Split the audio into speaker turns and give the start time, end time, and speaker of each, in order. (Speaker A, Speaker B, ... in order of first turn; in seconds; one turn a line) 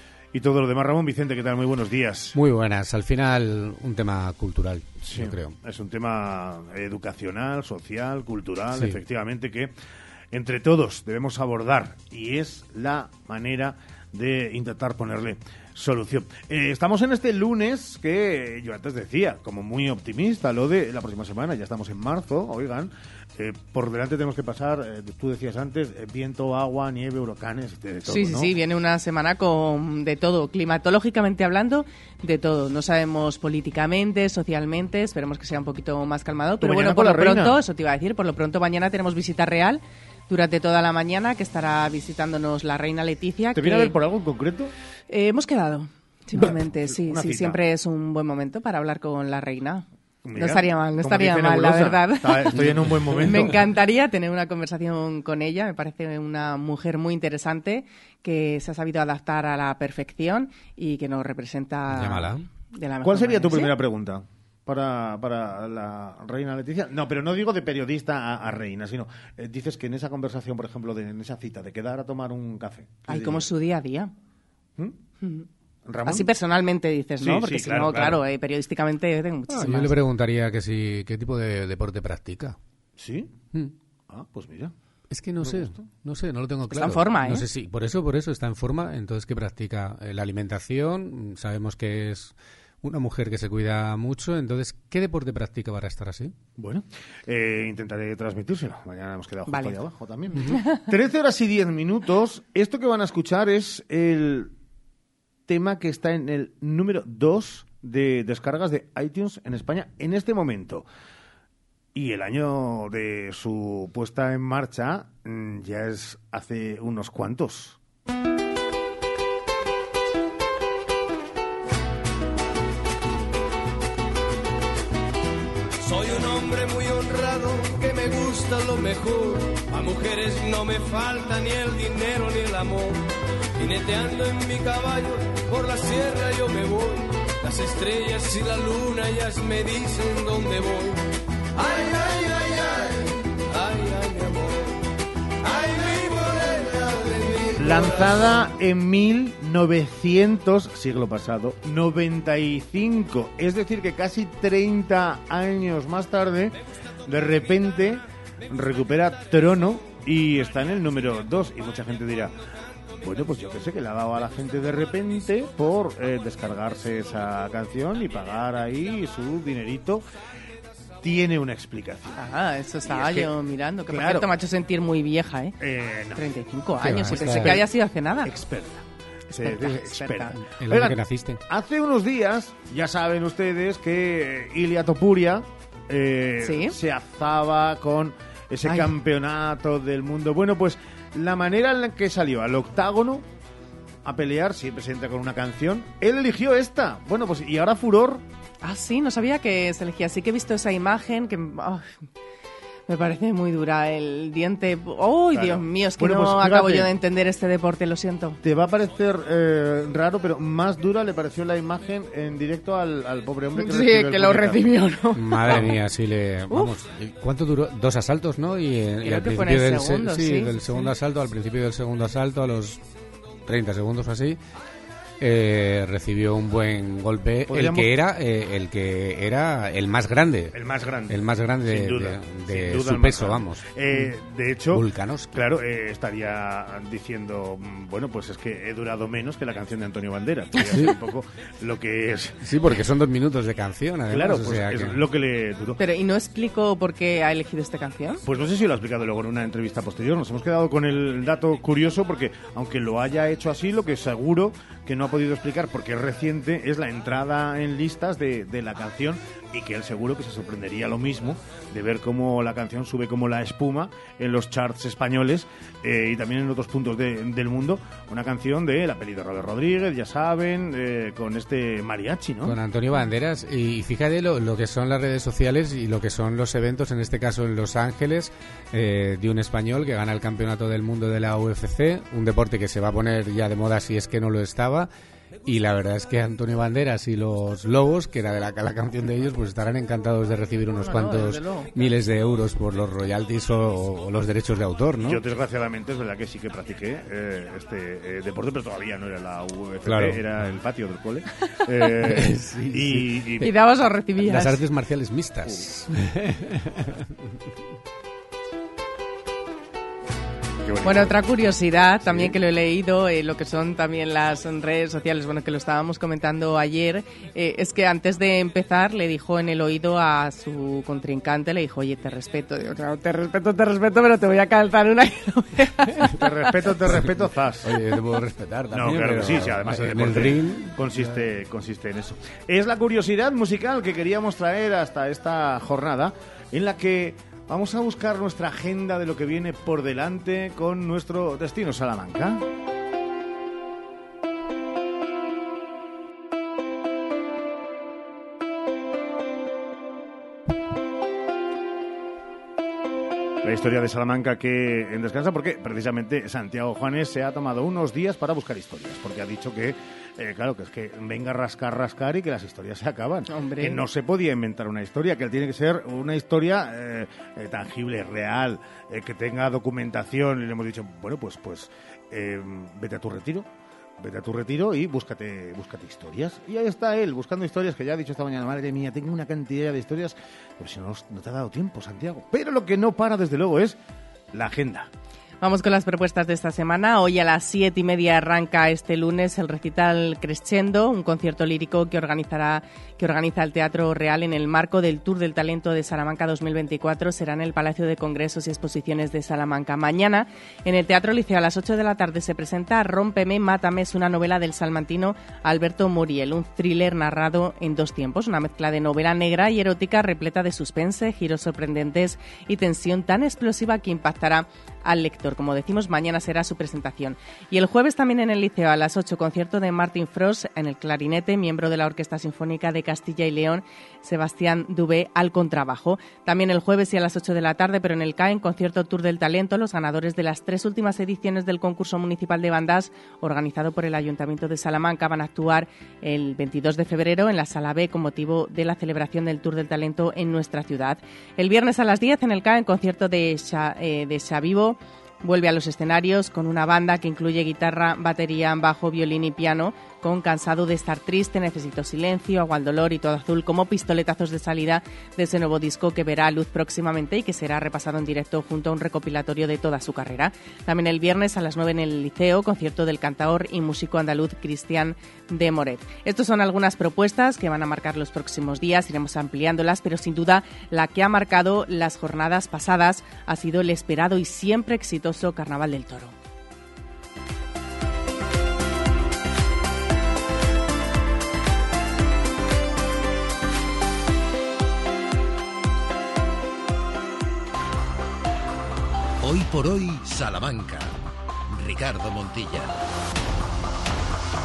Speaker A: 0.3-2.4
Speaker B: 2.3-5.6
Speaker A: 5.0-9.7
Speaker B: 8.7-9.0
Speaker A: 10.3-28.5
Speaker C: 28.1-44.0
Speaker A: 36.6-37.6
Speaker A: 43.6-44.7
Speaker C: 45.1-63.7
Speaker A: 46.4-47.6
Speaker A: 50.3-53.6
Speaker B: 52.8-53.2
Speaker B: 61.9-62.5
Speaker A: 63.0-73.5
Speaker C: 73.0-74.1
Speaker A: 75.9-76.3
Speaker C: 76.1-80.0
Speaker A: 77.2-78.2
Speaker B: 79.5-82.6
Speaker A: 83.0-83.3
Speaker A: 84.1-84.7
Speaker B: 85.1-96.3
Speaker A: 85.4-85.8
Speaker C: 86.7-87.5
Speaker A: 96.6-104.5
Speaker C: 99.5-99.8
Speaker C: 100.5-100.9
Speaker A: 105.5-110.9
Speaker A: 112.0-117.8
Speaker D: 125.8-133.1
Speaker D: 133.6-141.0
Speaker D: 141.6-144.7
Speaker D: 145.4-148.1
Speaker A: 147.6-162.3
Speaker A: 163.0-170.0
Speaker A: 171.0-172.2
Speaker C: 172.2-175.6
Speaker A: 172.9-173.3
Speaker A: 173.9-174.3
Speaker A: 175.6-176.2
Speaker C: 176.2-178.3
Speaker B: 176.8-177.6
Speaker A: 176.8-177.7
Speaker A: 178.2-193.2
Speaker C: 179.4-180.3
Speaker B: 180.4-181.4
Speaker C: 186.4-186.8
Speaker C: 188.7-188.9
Speaker A: 194.1-198.2
Speaker C: 198.6-202.0
Speaker C: 202.9-208.4
Speaker A: 205.3-206.9
Speaker A: 208.4-214.7
Speaker C: 213.6-215.8
Speaker B: 215.2-222.8
Speaker C: 216.5-216.8
Speaker C: 219.0-220.9
Speaker B: 223.5-224.4
Speaker B: 225.2-234.2
Speaker A: 227.5-227.9
Speaker A: 230.5-242.4
Speaker B: 234.7-235.4
Speaker B: 242.4-245.0
Speaker A: 244.1-245.8
Speaker C: 245.8-248.2
Speaker A: 248.2-272.6
Speaker B: 272.4-284.9
Speaker B: 285.4-295.2
Speaker C: 290.8-291.8
Speaker A: 295.1-303.5
Speaker B: 299.9-300.5
Speaker B: 302.1-303.1
Speaker C: 303.4-304.6
Speaker B: 304.2-306.9
Speaker A: 310.7-311.1
Speaker C: 310.8-326.1
Speaker A: 312.1-312.4
Speaker A: 326.2-327.7
Speaker B: 326.9-331.3
Speaker A: 328.7-342.4
Speaker A: 353.4-383.8
Speaker C: 363.3-363.8
Speaker A: 384.3-384.9
Speaker C: 385.4-476.1
Speaker E: 489.2-492.7